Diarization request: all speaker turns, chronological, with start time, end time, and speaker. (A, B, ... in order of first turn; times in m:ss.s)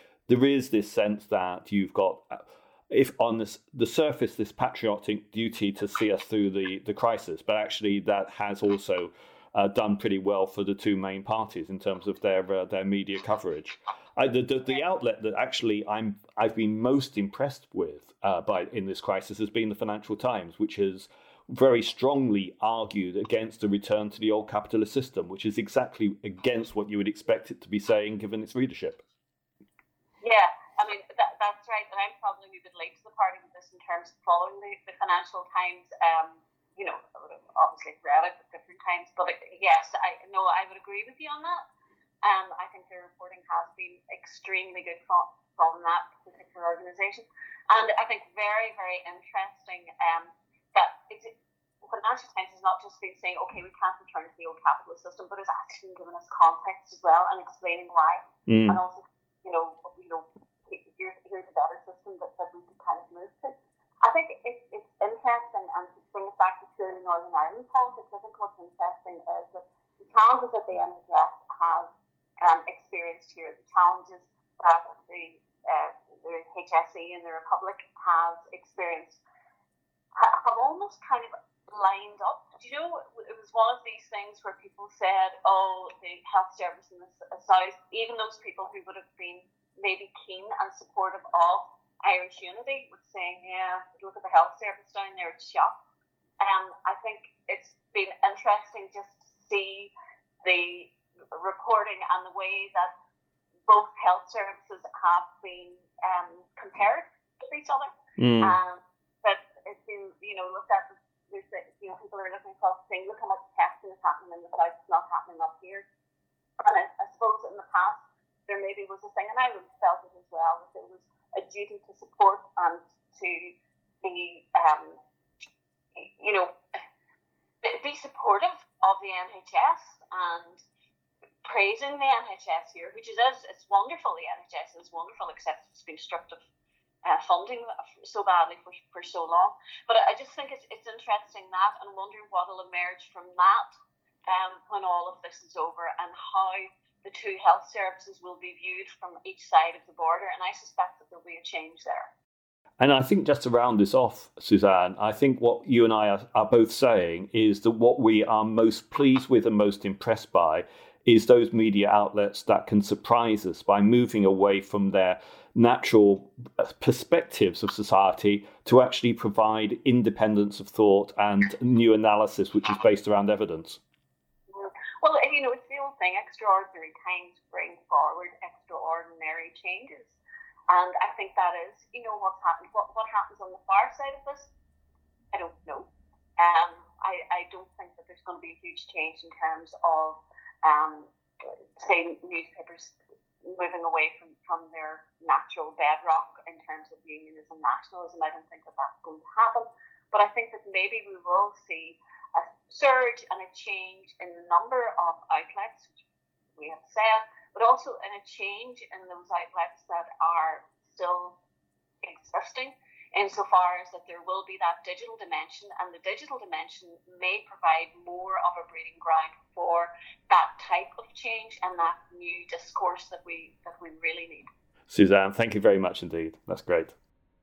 0:00.3-0:29.0 A
0:30.2-0:41.6 B
0:42.2-1:11.9 B
0:58.5-0:58.8 A
1:12.4-1:19.2 B
1:20.2-1:35.7 B
1:36.4-1:39.9 B
1:40.4-1:42.9 B
1:43.7-1:55.8 B
1:48.2-1:48.5 A
1:56.6-2:05.0 B
2:06.0-2:06.6 B
2:07.6-2:10.6 B
2:11.4-2:16.4 B
2:17.0-2:23.7 B
2:24.3-2:32.1 B
2:32.8-2:53.8 A
2:54.5-3:00.2 B
3:00.7-3:04.5 B
3:05.3-3:11.1 B
3:11.8-3:25.9 B
3:26.6-3:31.4 B
3:32.0-3:44.5 B
3:44.9-3:46.9 A